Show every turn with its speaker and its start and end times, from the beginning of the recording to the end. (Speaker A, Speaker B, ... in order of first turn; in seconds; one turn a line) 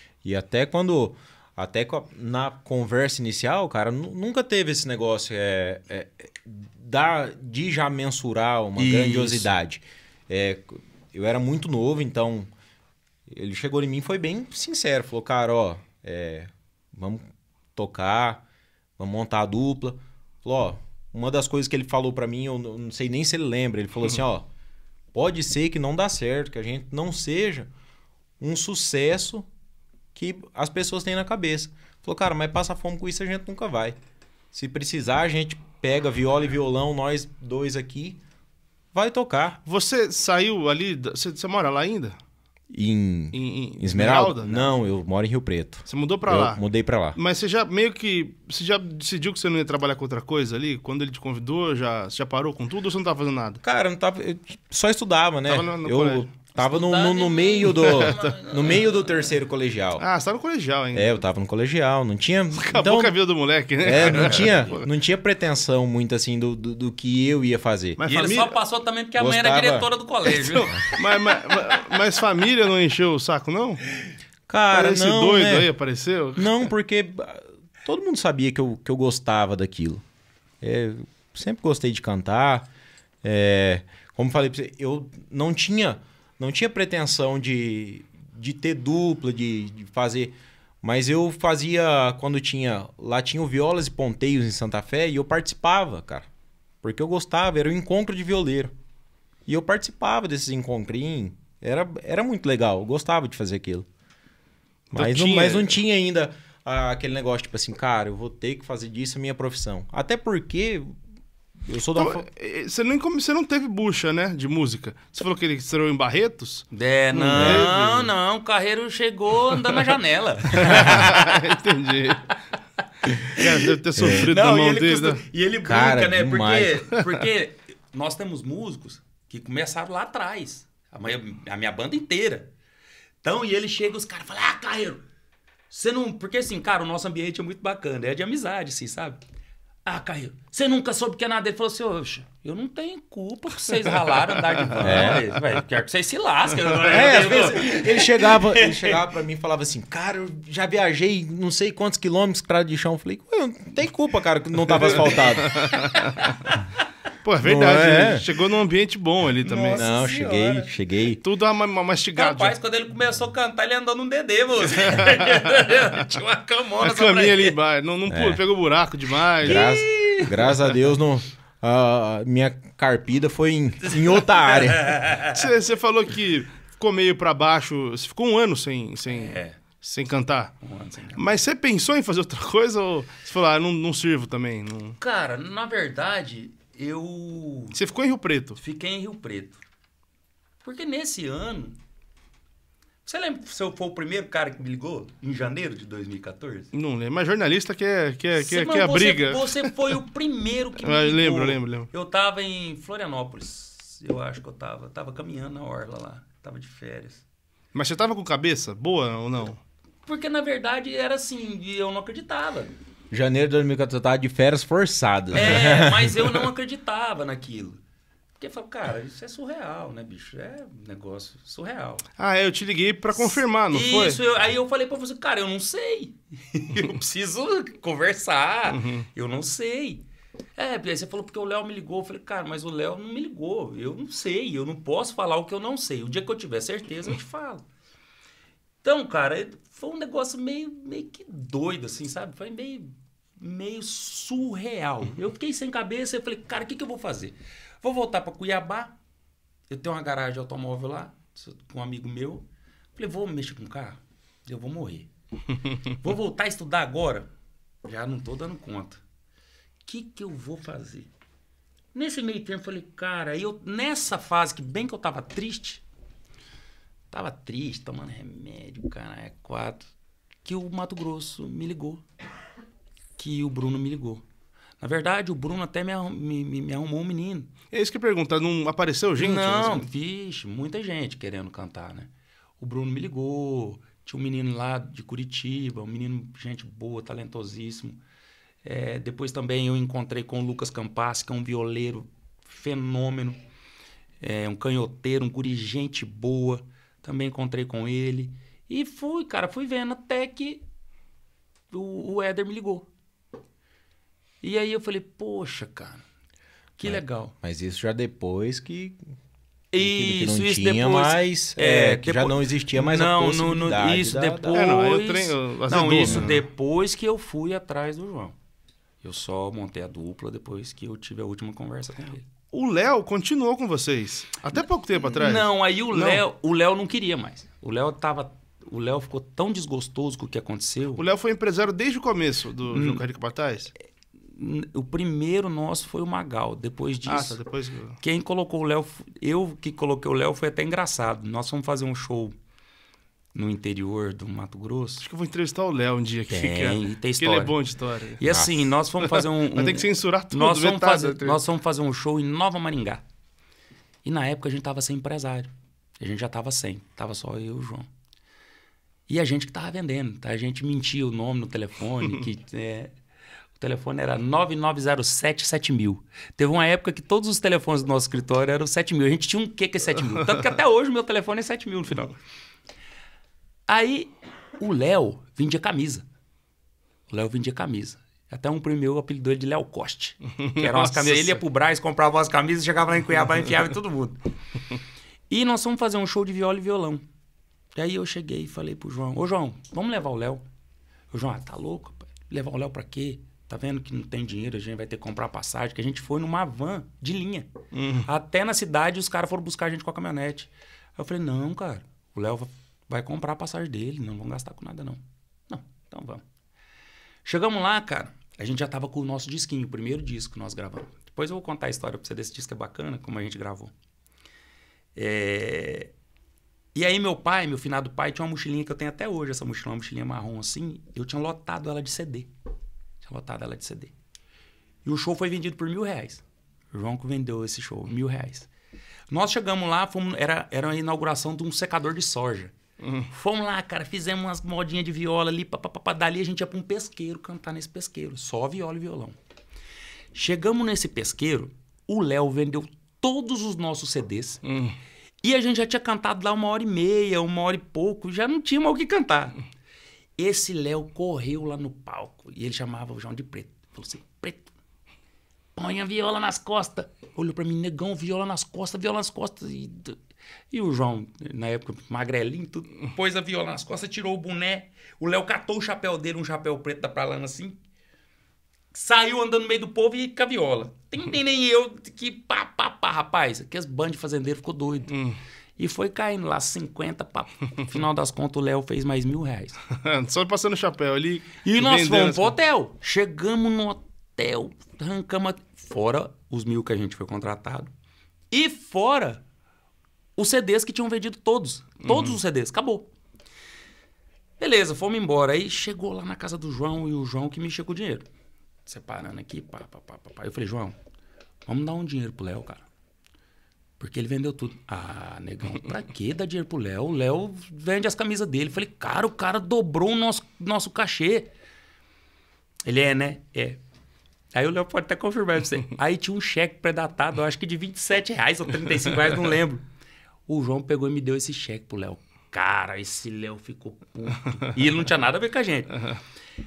Speaker A: 0.2-12.5
Speaker B: 8.8-9.5
Speaker A: 13.3-17.2
Speaker A: 17.8-18.4
Speaker A: 19.0-24.5
Speaker A: 25.1-27.7
Speaker A: 28.4-29.5
Speaker A: 30.1-34.0
Speaker A: 34.5-38.2
Speaker A: 38.9-39.6
Speaker C: 39.7-42.2
Speaker A: 42.7-47.2
Speaker C: 43.3-44.8
Speaker C: 45.9-46.6
Speaker C: 47.1-53.6
Speaker A: 53.6-60.0
Speaker C: 55.5-56.3
Speaker B: 56.5-59.2
Speaker C: 57.7-58.3
Speaker C: 60.0-61.2
Speaker A: 60.9-63.2
Speaker C: 62.6-64.9
Speaker A: 63.8-68.0
Speaker B: 64.0-64.5
Speaker C: 68.0-68.5
Speaker B: 68.1-71.0
Speaker A: 69.2-69.9
Speaker C: 70.3-73.8
Speaker A: 74.5-75.7
Speaker C: 74.7-76.6
Speaker A: 76.3-80.0
Speaker A: 80.6-82.7
Speaker A: 83.2-96.3
Speaker A: 96.8-98.7
Speaker A: 99.5-103.9
Speaker C: 104.9-105.8
Speaker A: 105.0-111.0
Speaker A: 111.6-112.2
Speaker C: 112.0-118.1
Speaker B: 116.7-121.4
Speaker A: 117.3-117.8
Speaker C: 120.5-122.4
Speaker A: 120.7-121.0
Speaker B: 123.0-132.5
Speaker C: 123.1-125.2
Speaker A: 124.0-124.3
Speaker A: 125.6-126.8
Speaker B: 133.2-135.0
Speaker B: 135.7-139.2
Speaker B: 139.9-149.0
Speaker C: 144.8-145.2
Speaker A: 144.8-145.3
Speaker C: 146.8-147.1
Speaker A: 146.9-155.9
Speaker C: 154.8-156.4
Speaker B: 155.6-156.6
Speaker C: 157.2-159.9
Speaker A: 157.4-158.3
Speaker B: 159.4-160.7
Speaker A: 159.7-161.2
Speaker C: 161.2-162.6
Speaker B: 162.2-167.6
Speaker C: 166.8-169.7
Speaker A: 168.1-168.4
Speaker A: 169.4-175.1
Speaker B: 169.4-170.5
Speaker B: 174.5-175.4
Speaker C: 175.3-180.6
Speaker B: 179.1-179.6
Speaker B: 180.6-181.3
Speaker C: 181.2-185.0
Speaker B: 185.0-187.8
Speaker C: 187.8-188.6
Speaker B: 188.6-189.6
Speaker B: 190.6-191.8
Speaker B: 193.1-196.7
Speaker C: 196.7-199.9
Speaker B: 198.4-207.2
Speaker C: 200.8-201.9
Speaker C: 207.7-209.6
Speaker B: 210.1-212.7
Speaker A: 213.1-216.4
Speaker B: 215.3-217.8
Speaker B: 218.4-222.1
Speaker C: 222.2-224.2
Speaker B: 223.2-230.1
Speaker C: 228.7-229.1
Speaker B: 230.6-237.7
Speaker B: 238.8-248.9
Speaker B: 249.7-252.4
Speaker B: 253.0-255.1
Speaker B: 255.9-257.3
Speaker B: 257.9-259.0
Speaker B: 259.9-261.1
Speaker B: 261.9-265.8
Speaker B: 267.1-269.9
Speaker B: 270.4-272.0
Speaker B: 273.2-274.2
Speaker B: 274.8-277.5
Speaker C: 277.7-279.9
Speaker B: 279.2-288.0
Speaker B: 288.6-293.4
Speaker B: 294.2-300.6
Speaker B: 301.7-302.9
Speaker B: 304.4-306.0
Speaker B: 306.8-307.3
Speaker A: 306.8-309.0
Speaker B: 309.7-318.4
Speaker A: 309.8-314.6
Speaker C: 314.5-316.4
Speaker A: 316.0-316.3
Speaker B: 319.0-322.3
Speaker C: 322.5-326.2
Speaker B: 325.0-331.0
Speaker C: 331.0-333.7
Speaker B: 332.7-333.0
Speaker B: 334.3-337.4
Speaker C: 337.1-338.0
Speaker B: 338.0-342.4
Speaker B: 343.3-345.1
Speaker C: 345.0-348.2
Speaker B: 346.3-347.6
Speaker B: 348.1-353.0
Speaker C: 349.0-351.4
Speaker B: 354.1-357.9
Speaker B: 359.1-362.9
Speaker B: 363.6-372.1
Speaker B: 373.7-376.1
Speaker B: 377.1-384.2
Speaker C: 380.4-381.4
Speaker B: 385.3-387.0
Speaker B: 387.8-390.4
Speaker B: 391.1-397.5
Speaker C: 397.7-398.1
Speaker B: 398.0-406.2
Speaker B: 407.2-413.7
Speaker B: 414.9-415.9
Speaker B: 416.8-422.3
Speaker B: 423.0-423.9
Speaker B: 424.9-428.5
Speaker B: 429.1-432.5
Speaker C: 432.8-433.1
Speaker B: 433.1-439.2
Speaker B: 440.1-444.4
Speaker C: 444.4-444.8
Speaker B: 445.2-449.4
Speaker B: 450.2-454.5
Speaker B: 455.6-460.0
Speaker B: 460.5-467.6
Speaker B: 468.7-475.0
Speaker C: 474.9-475.2
Speaker B: 475.6-479.6
Speaker C: 479.7-482.3
Speaker B: 481.4-487.7
Speaker B: 488.3-489.2
Speaker B: 490.2-492.9
Speaker B: 494.4-498.1
Speaker B: 498.7-500.8
Speaker B: 501.5-502.7
Speaker B: 503.8-511.3
Speaker B: 512.6-513.6
Speaker B: 514.3-519.6
Speaker B: 520.3-525.8